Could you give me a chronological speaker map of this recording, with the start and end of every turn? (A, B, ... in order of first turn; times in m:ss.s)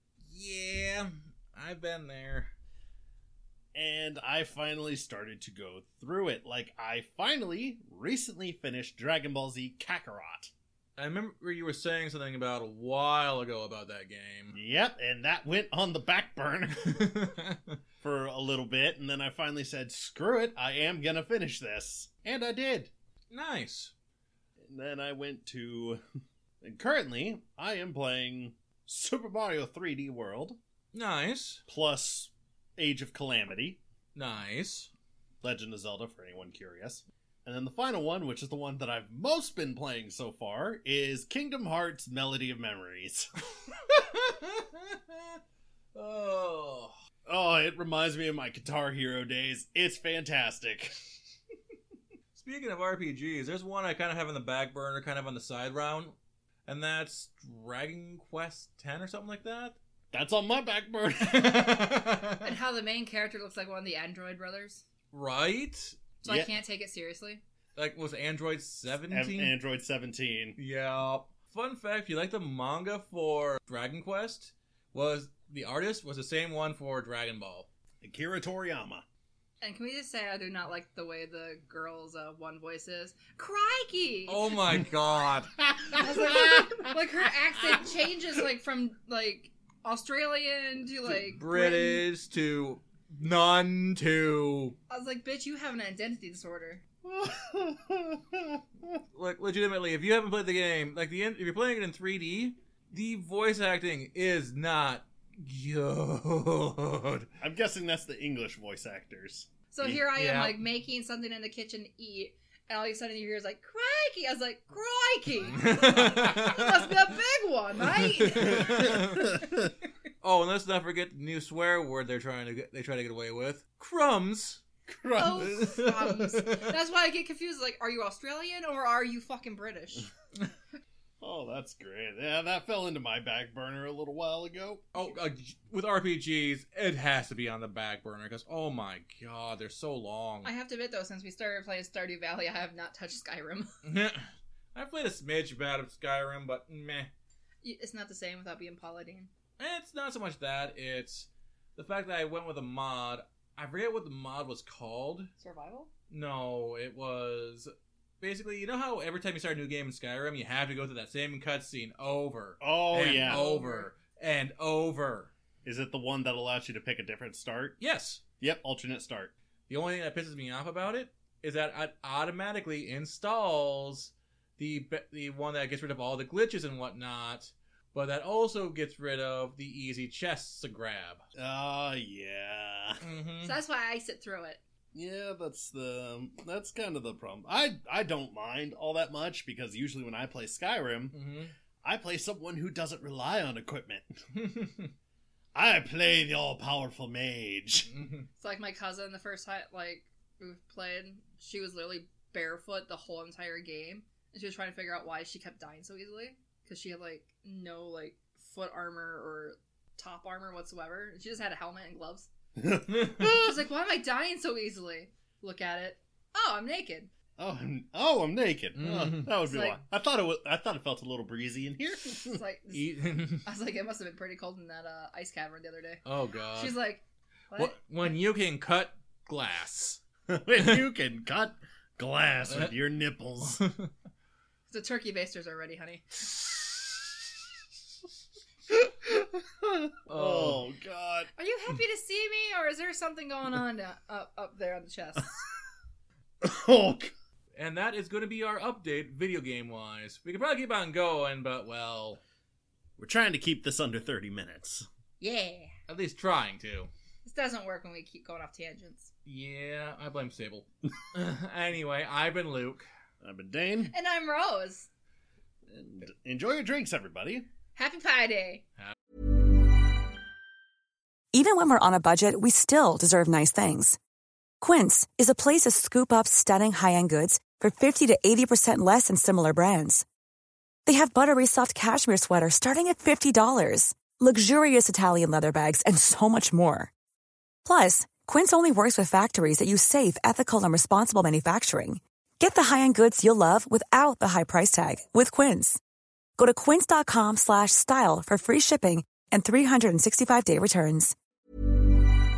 0:00.2-0:02.5 A
0:03.7-0:10.5 B
0:11.0-0:14.6 A
0:14.5-0:17.0 B
0:17.0-0:17.7 A
0:18.0-0:22.9 B
0:23.3-0:23.9 A
0:24.6-0:26.0 B
0:26.6-0:30.6 B
0:30.9-0:31.6 A
0:31.7-0:33.8 B
0:34.1-0:34.9 A
0:35.4-0:43.3 B
0:43.7-0:45.4 A
0:45.9-0:46.9 A
0:47.2-0:50.9 B
0:52.3-0:56.1 A
0:56.6-0:59.8 A
1:00.1-1:02.0 B
1:01.3-1:02.5 A
1:02.4-1:04.8 C
1:05.1-1:06.0 A
1:06.2-1:07.4 C
1:06.2-1:06.6 B
1:07.8-1:09.6 A
1:09.1-1:10.6 B
1:10.6-1:17.7 A
1:18.0-1:19.0 B
1:19.6-1:24.4 C
1:24.3-1:25.6 A
1:25.9-1:26.7 B
1:25.9-1:32.0 C
1:31.0-1:34.7 A
1:34.9-1:36.8 C
1:37.0-1:38.6 B
1:39.1-1:47.3 A
1:47.4-1:50.0 B
1:49.7-1:59.7 C
1:50.1-1:50.6 A
1:55.5-1:56.7 A
1:58.2-1:59.4 A
1:58.5-1:59.4 B
2:00.2-2:04.6 A
2:04.9-2:05.7 B
2:05.1-2:10.1 C
2:05.4-2:06.7 A
2:11.2-2:14.9 B
2:14.9-2:20.5 A
2:20.4-2:23.7 C
2:23.8-2:27.1 A
2:27.6-2:29.3 C
2:29.6-2:35.3 A
2:35.4-2:35.9 C
2:36.1-2:45.3 A
2:42.6-2:43.5 B
2:43.2-2:43.9 C
2:45.6-2:47.8 B
2:47.8-2:48.2 A
2:48.4-2:49.3 B
2:49.7-3:01.2 A
3:01.4-3:03.0 B
3:03.0-3:03.6 A
3:03.4-3:04.6 C
3:04.9-3:11.2 B
3:11.1-3:11.5 A
3:11.8-3:14.1 B
3:14.3-3:14.9 A
3:15.5-3:17.9 B
3:17.9-3:18.3 A
3:18.4-3:32.3 C
3:32.6-3:33.5 B
3:33.2-3:37.1 C
3:37.4-3:42.4 B
3:38.8-3:39.3 A
3:39.4-3:39.8 C
3:42.3-3:46.0 C
3:42.7-3:43.4 A
3:46.0-3:46.8 A
3:46.5-3:47.8 C
3:47.6-3:50.0 A
3:50.3-3:53.6 B
3:52.5-3:52.7 A
3:53.4-3:53.9 A
3:54.7-3:56.2 C
3:58.7-4:01.3 B
4:00.1-4:00.6 A
4:01.4-4:05.3 C
4:06.4-4:07.1 B
4:07.5-4:12.2 A
4:13.0-4:14.9 B
4:15.2-4:15.7 C
4:15.9-4:16.9 A
4:17.2-4:19.1 C
4:19.2-4:22.9 A
4:23.2-4:23.9 B
4:23.9-4:24.9 C
4:25.7-4:27.5 B
4:27.7-4:28.6 C
4:31.3-4:34.0 D
4:34.6-4:40.0 D
4:40.8-4:46.9 D
4:47.6-4:55.8 D
4:56.4-5:01.1 D